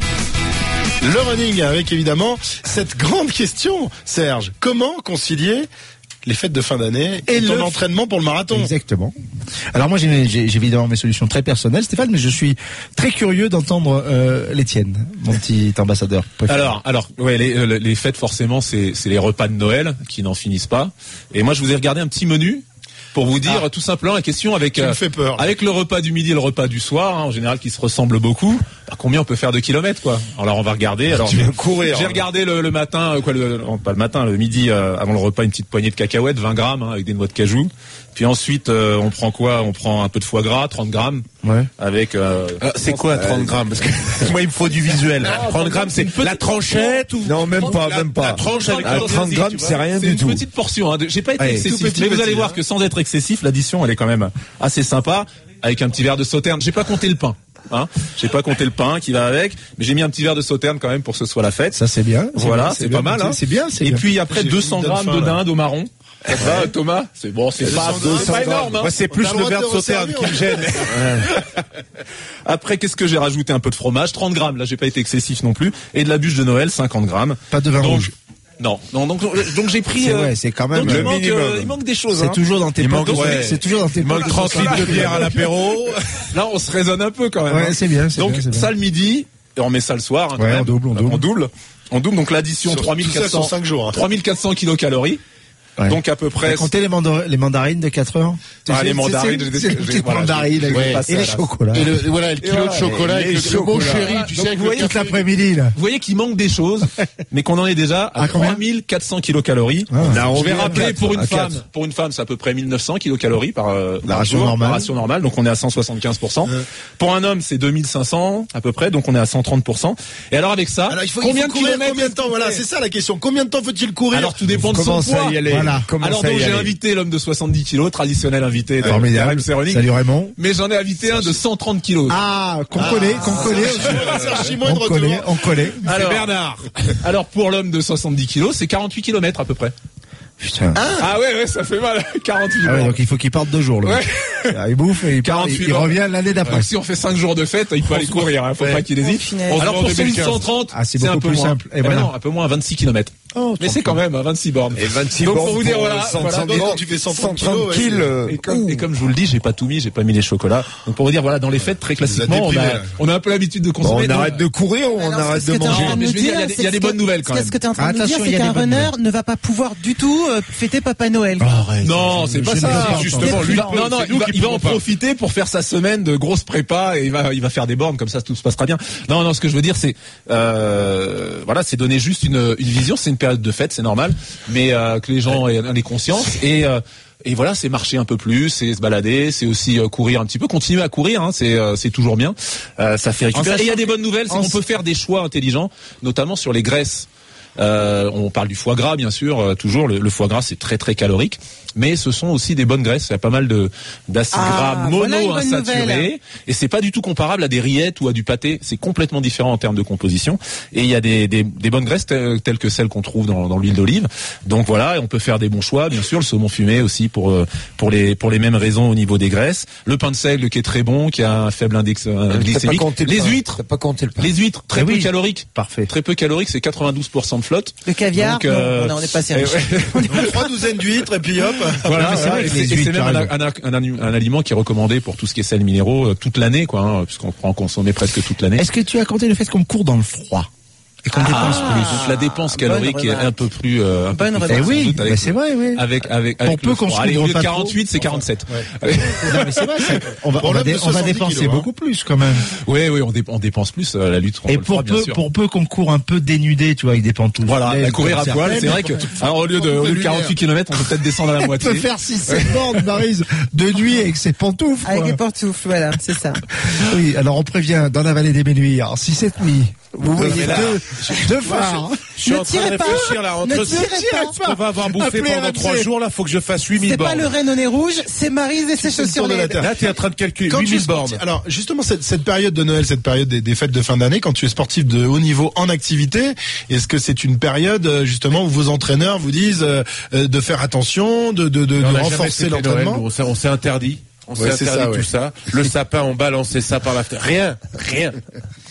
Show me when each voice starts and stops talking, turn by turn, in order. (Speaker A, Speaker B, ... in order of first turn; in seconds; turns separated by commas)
Speaker A: 1.0-5.7, Speaker A: 6.2-8.7, Speaker B: 7.3-7.8, Speaker B: 8.5-9.1, Speaker B: 9.7-16.7, Speaker C: 16.5-41.3, Speaker A: 24.7-25.5, Speaker D: 31.1-32.2, Speaker B: 41.4-41.7, Speaker C: 41.8-43.0, Speaker E: 42.6-49.7, Speaker D: 43.2-43.5, Speaker C: 45.7-47.7, Speaker D: 47.2-50.4, Speaker C: 48.3-61.8, Speaker E: 51.4-52.6, Speaker B: 61.7-64.0, Speaker C: 62.3-68.9, Speaker A: 64.3-65.4, Speaker A: 67.6-68.5, Speaker E: 67.7-71.3, Speaker D: 67.9-68.8, Speaker A: 69.1-70.9, Speaker C: 72.4-82.4, Speaker B: 77.5-78.1, Speaker B: 80.0-81.2, Speaker E: 80.9-81.8, Speaker B: 82.2-85.4, Speaker E: 82.8-86.0, Speaker C: 83.0-83.6, Speaker C: 84.2-85.2, Speaker A: 85.6-85.9, Speaker C: 86.3-95.2, Speaker B: 87.5-88.7, Speaker B: 90.3-91.2, Speaker A: 92.7-94.0, Speaker B: 95.8-102.0, Speaker C: 95.8-96.7, Speaker C: 98.6-101.5, Speaker D: 100.7-101.0, Speaker E: 101.7-105.2, Speaker D: 102.4-104.2, Speaker C: 104.1-104.5, Speaker B: 104.3-105.7, Speaker C: 105.7-122.6, Speaker B: 108.2-108.6, Speaker B: 109.9-110.9, Speaker D: 110.0-111.6, Speaker B: 114.0-114.9, Speaker A: 120.9-124.3, Speaker C: 124.1-132.2, Speaker D: 124.6-126.7, Speaker B: 125.4-125.9, Speaker B: 128.8-130.3, Speaker B: 131.0-131.4, Speaker B: 132.1-135.8, Speaker A: 132.8-135.4, Speaker D: 133.4-134.1, Speaker C: 133.5-134.2, Speaker C: 135.8-139.7, Speaker B: 140.4-140.8, Speaker C: 141.0-143.0, Speaker B: 142.6-146.7, Speaker C: 143.8-144.6, Speaker C: 145.2-156.7, Speaker E: 147.9-148.9, Speaker F: 149.0-149.7, Speaker E: 149.5-150.4, Speaker B: 150.7-152.1, Speaker B: 153.3-154.0, Speaker D: 154.8-158.8, Speaker A: 156.2-158.2, Speaker C: 158.3-164.4, Speaker A: 162.0-162.9, Speaker D: 163.8-166.0, Speaker F: 164.9-171.5, Speaker C: 165.7-167.6, Speaker B: 167.8-168.9, Speaker E: 171.4-174.8, Speaker C: 171.8-192.3, Speaker B: 172.4-173.9, Speaker B: 193.1-193.8, Speaker C: 193.3-223.6, Speaker B: 194.3-194.6, Speaker F: 204.3-206.1, Speaker D: 222.3-224.3, Speaker C: 224.2-230.3, Speaker B: 224.7-225.9, Speaker F: 227.8-230.2, Speaker A: 230.1-232.3, Speaker C: 231.8-238.7, Speaker B: 231.9-233.3, Speaker B: 238.5-240.5, Speaker B: 241.0-242.0, Speaker F: 241.1-243.3, Speaker C: 241.1-249.9, Speaker F: 244.1-244.5, Speaker B: 244.5-247.8, Speaker B: 249.1-252.4, Speaker A: 250.3-251.7, Speaker C: 252.6-255.2, Speaker B: 254.5-258.8, Speaker C: 257.4-261.9, Speaker A: 259.6-260.3, Speaker B: 261.4-265.2, Speaker F: 264.8-266.4, Speaker B: 266.5-272.1, Speaker E: 270.1-277.3, Speaker C: 270.2-270.8, Speaker F: 272.2-274.4, Speaker B: 272.9-275.9, Speaker F: 276.8-279.7, Speaker A: 278.8-279.9, Speaker E: 279.6-281.2, Speaker A: 280.5-293.0, Speaker E: 291.8-298.2, Speaker A: 294.4-295.1